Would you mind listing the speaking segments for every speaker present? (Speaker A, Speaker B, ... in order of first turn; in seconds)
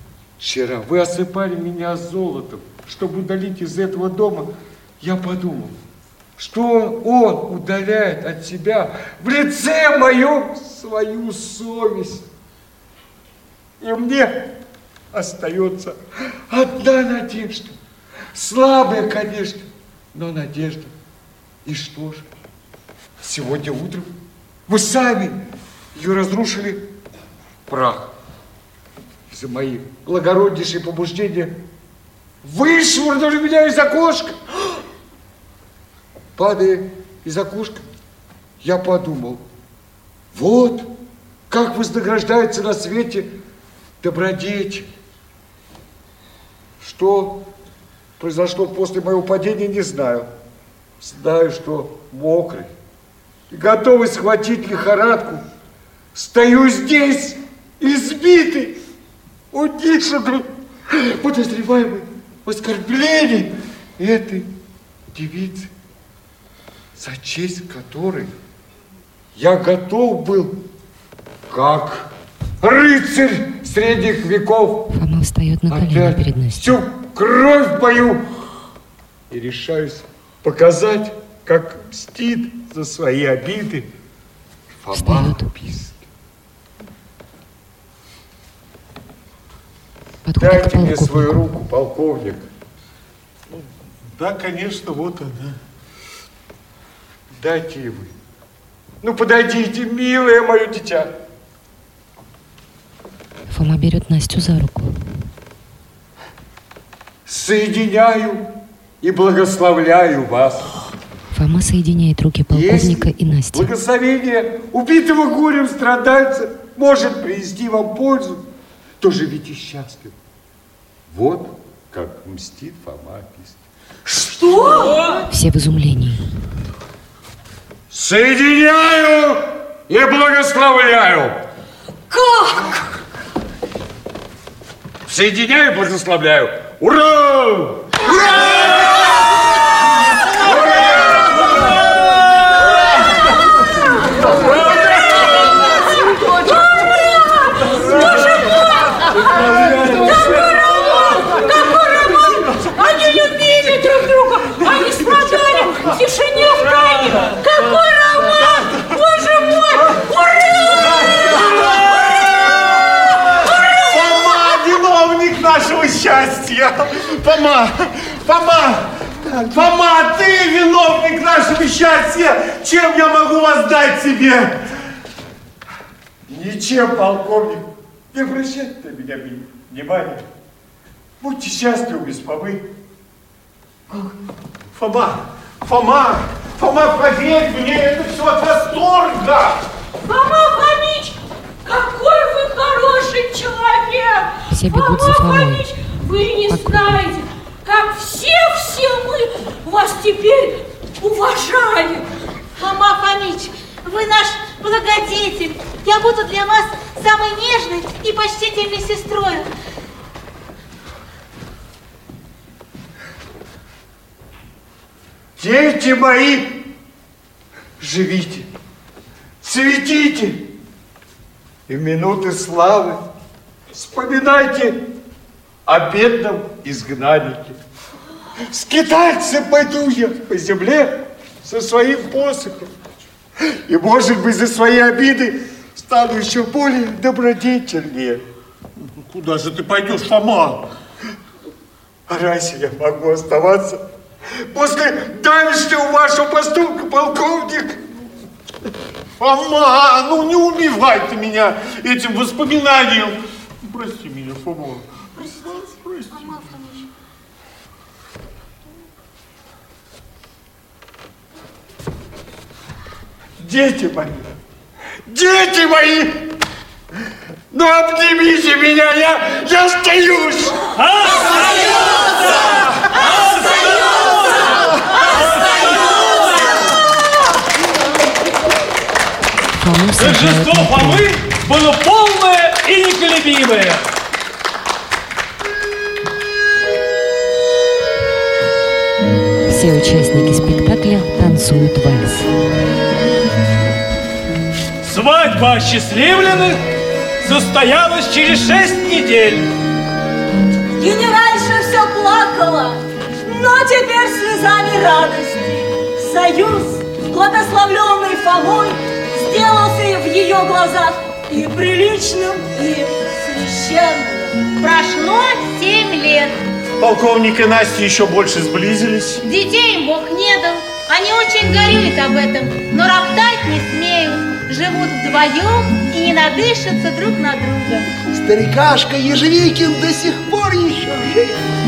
Speaker A: 0.4-5.8, 6.4-12.3, 13.8-14.5, 15.1-17.8, 18.3-20.9, 21.6-22.3, 23.2-24.1, 24.7-25.4, 25.9-26.8, 27.7-28.1, 29.3-31.6, 32.4-34.4, 36.4-37.9, 38.6-39.5, 40.3-40.9, 41.5-43.3, 44.0-44.9, 46.8-47.5, 48.2-50.3, 51.0-52.7, 53.5-55.5, 56.1-58.8, 59.5-64.5, 65.1-65.7, 67.0-68.3, 69.3-70.6, 71.5-74.9, 75.7-78.2, 79.3-83.9, 84.8-86.1, 90.4-92.5, 97.3-98.1, 99.0-101.1, 107.3-108.5, 109.0-110.8, 112.5-118.5, 119.0-120.2, 121.1-123.7, 127.9-131.4, 135.1-138.7, 140.5-140.9, 176.3-180.2, 181.2-182.7, 215.4-216.6, 217.8-218.5, 219.4-220.5, 221.7-223.0, 223.7-224.8, 225.7-227.6, 228.5-232.7, 233.5-238.2, 242.1-243.8, 244.4-247.8, 263.4-264.3, 265.1-266.3, 267.5-270.6
Speaker B: 74.9-76.8, 84.9-85.5, 90.2-91.4, 103.5-105.0, 111.3-113.7, 125.3-126.3, 194.5-195.7, 196.5-197.1, 279.5-281.1, 289.5-292.3
Speaker C: 93.5-95.6, 160.8-162.1, 163.4-174.7, 184.8-189.6, 238.8-240.7, 249.2-256.5, 316.8-319.2
Speaker D: 124.1-125.0, 132.1-132.7, 144.2-162.2, 190.1-202.1
Speaker E: 124.3-125.1, 300.8-314.4
Speaker F: 149.1-150.6, 270.8-276.0, 280.0-283.9, 294.8-296.6, 297.2-299.5
Speaker G: 202.6-209.5, 255.2-256.9, 314.6-316.4, 319.2-327.9
Speaker H: 328.1-331.4